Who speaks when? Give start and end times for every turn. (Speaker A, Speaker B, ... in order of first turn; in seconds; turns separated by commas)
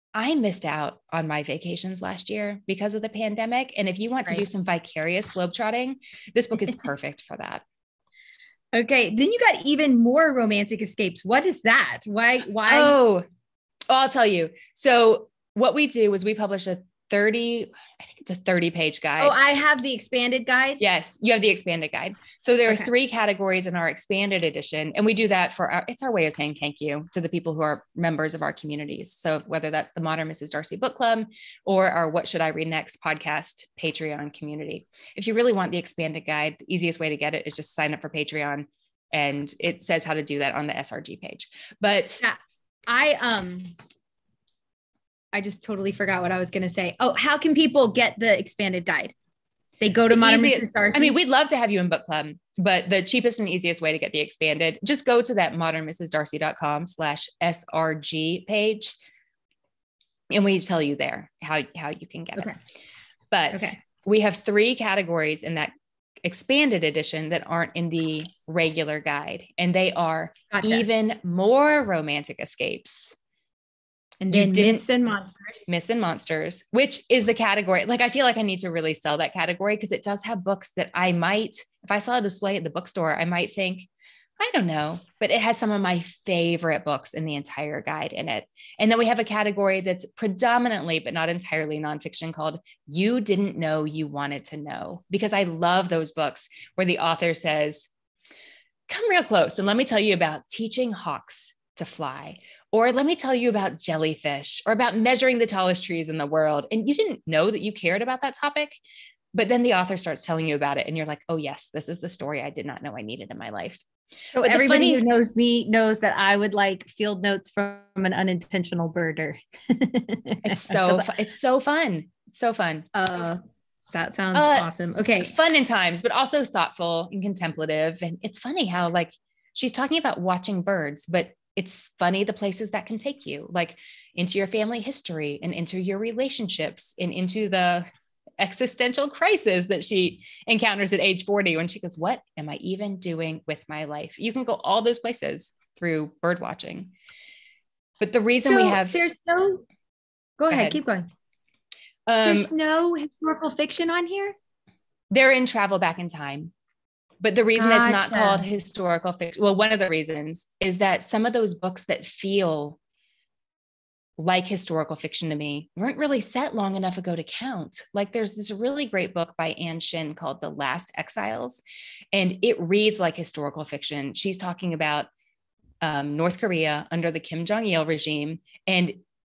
Speaker A: 0.1-7.6, Speaker B: 8.7-12.9, Speaker A: 12.6-13.2, Speaker A: 13.9-19.3, Speaker B: 19.2-20.8, Speaker A: 20.8-42.2, Speaker B: 42.9-43.7, Speaker B: 45.3-49.1, Speaker B: 49.8-51.2, Speaker A: 50.1-59.0, Speaker A: 60.3-62.5, Speaker A: 63.3-65.7, Speaker B: 63.5-63.8, Speaker A: 66.2-73.2, Speaker B: 70.5-70.8, Speaker B: 74.2-75.7, Speaker A: 74.3-74.8, Speaker A: 75.7-83.9, Speaker A: 84.4-97.9, Speaker A: 98.9-108.8, Speaker A: 109.3-113.8, Speaker A: 114.3-115.0, Speaker B: 114.3-121.1, Speaker A: 120.4-122.9, Speaker B: 122.9-123.4, Speaker B: 123.9-125.3, Speaker A: 124.3-124.7, Speaker A: 125.2-137.8, Speaker A: 138.4-146.9, Speaker A: 148.0-149.0, Speaker B: 148.4-149.7, Speaker B: 150.4-151.1, Speaker A: 150.5-150.8, Speaker A: 152.1-152.5, Speaker B: 152.2-154.3, Speaker A: 155.1-156.5, Speaker A: 157.2-162.8, Speaker B: 157.6-158.5, Speaker A: 164.2-171.6, Speaker A: 172.1-175.1, Speaker A: 175.8-178.9